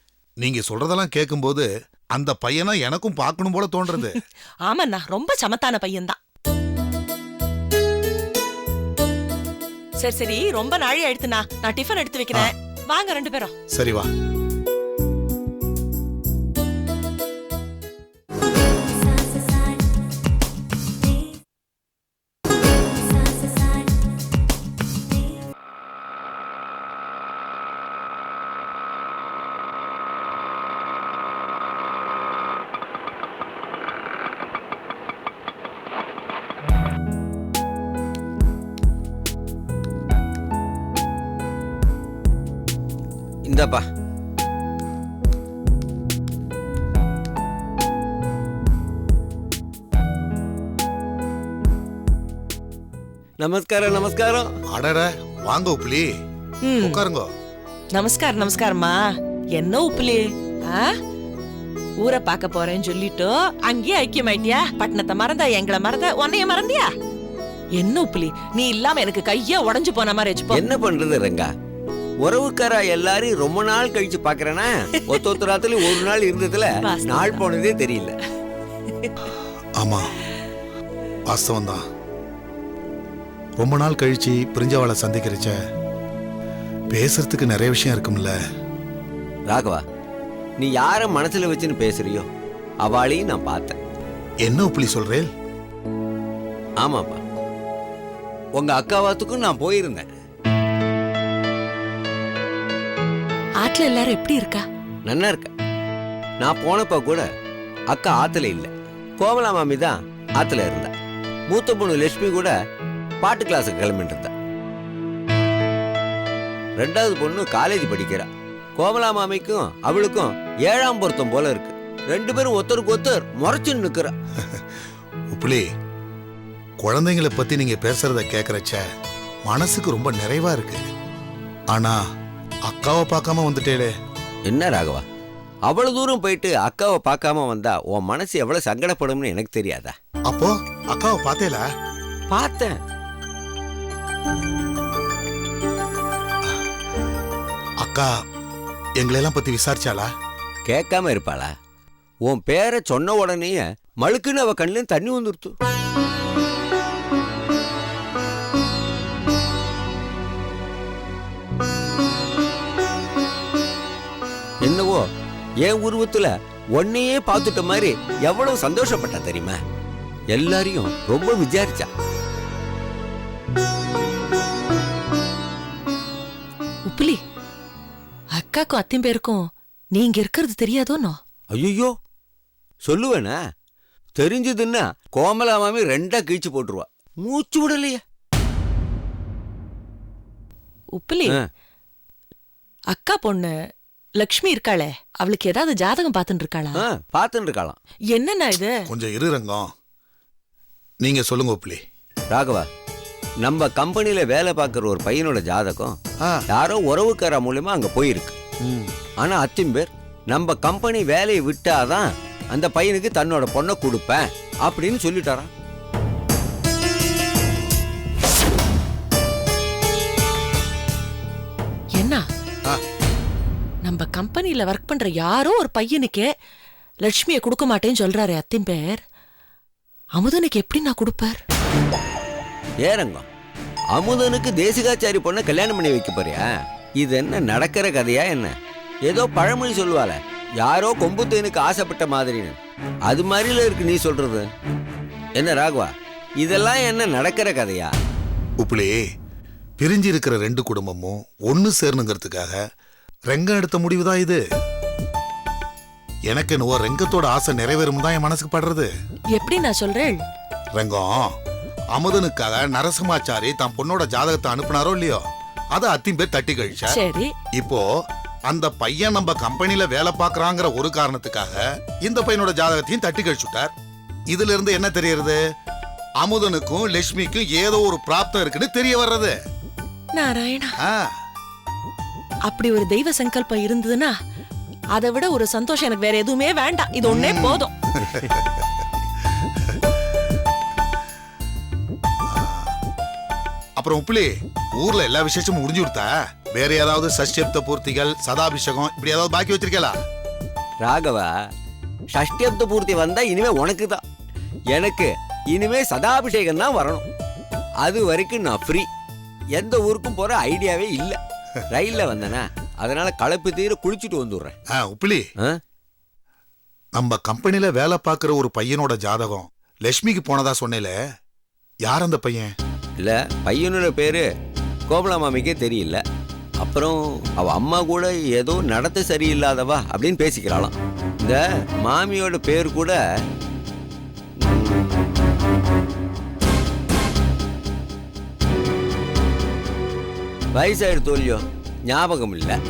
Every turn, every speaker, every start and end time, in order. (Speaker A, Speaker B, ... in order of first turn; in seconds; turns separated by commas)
Speaker A: 0.4-4.2, Speaker B: 4.7-6.2, Speaker B: 10.0-13.5, Speaker A: 13.7-14.1, Speaker C: 43.5-43.8, Speaker C: 53.4-54.5, Speaker A: 54.7-56.1, Speaker B: 56.6-57.0, Speaker A: 56.8-57.3, Speaker B: 57.9-59.0, Speaker B: 59.6-60.9, Speaker B: 62.0-66.9, Speaker B: 67.8-70.6, Speaker C: 70.5-71.5, Speaker C: 72.2-78.1, Speaker B: 76.8-77.4, Speaker A: 79.8-80.0, Speaker A: 81.3-81.8, Speaker A: 83.6-85.6, Speaker A: 86.9-88.3, Speaker C: 89.5-89.8, Speaker C: 90.6-92.2, Speaker C: 92.8-93.8, Speaker A: 94.4-95.3, Speaker C: 96.8-97.2, Speaker C: 98.6-100.1, Speaker B: 103.6-104.6, Speaker C: 105.1-105.5, Speaker C: 106.4-107.2, Speaker C: 107.9-110.9, Speaker C: 111.5-112.5, Speaker C: 113.2-114.3, Speaker C: 116.8-124.1, Speaker A: 125.3-125.6, Speaker A: 126.8-128.8, Speaker A: 129.5-130.8, Speaker A: 132.7-133.9, Speaker C: 134.5-135.0, Speaker C: 135.7-139.9, Speaker A: 140.3-141.6, Speaker C: 142.3-142.8, Speaker A: 147.8-148.1, Speaker A: 149.0-150.1, Speaker C: 150.7-151.5, Speaker C: 152.3-155.5, Speaker C: 164.6-165.0, Speaker C: 165.6-169.6, Speaker C: 170.3-171.9, Speaker B: 176.9-177.2, Speaker B: 178.3-181.2, Speaker C: 181.5-181.9, Speaker C: 182.9-183.3, Speaker C: 184.2-188.0, Speaker B: 191.0-191.3, Speaker B: 192.9-193.5, Speaker B: 194.2-196.8, Speaker C: 196.8-197.8, Speaker B: 198.1-198.8, Speaker A: 198.9-199.7, Speaker A: 201.0-201.8, Speaker C: 202.3-202.7, Speaker C: 203.4-205.9, Speaker C: 206.5-208.3, Speaker C: 209.2-215.5, Speaker B: 222.0-222.2, Speaker B: 223.8-226.2, Speaker B: 227.0-229.0, Speaker B: 230.2-231.4, Speaker C: 232.8-233.2, Speaker C: 233.9-236.5, Speaker C: 237.0-238.5, Speaker C: 239.1-242.6, Speaker C: 243.1-244.4, Speaker C: 245.4-247.9, Speaker A: 248.6-249.0, Speaker A: 249.8-252.6, Speaker A: 253.3-254.4, Speaker A: 256.3-258.9, Speaker B: 259.3-260.2, Speaker A: 260.8-261.3, Speaker A: 261.9-265.2, Speaker A: 265.7-267.0, Speaker B: 266.8-267.3, Speaker A: 267.6-267.8, Speaker A: 268.5-273.7, Speaker A: 274.3-275.4, Speaker A: 276.2-279.4, Speaker B: 280.1-280.8, Speaker A: 280.8-281.1, Speaker B: 282.5-284.1, Speaker B: 284.9-287.7, Speaker A: 287.0-288.6, Speaker A: 292.3-292.7, Speaker A: 293.8-299.9, Speaker C: 300.8-301.3, Speaker C: 302.1-304.0, Speaker C: 304.7-307.1, Speaker C: 307.8-308.9, Speaker C: 309.6-311.2, Speaker C: 311.7-314.5, Speaker A: 314.7-315.2, Speaker A: 316.9-320.9, Speaker A: 321.9-322.5, Speaker C: 323.0-324.2, Speaker C: 324.9-326.0, Speaker C: 326.6-333.0, Speaker C: 334.4-335.0, Speaker C: 340.5-342.6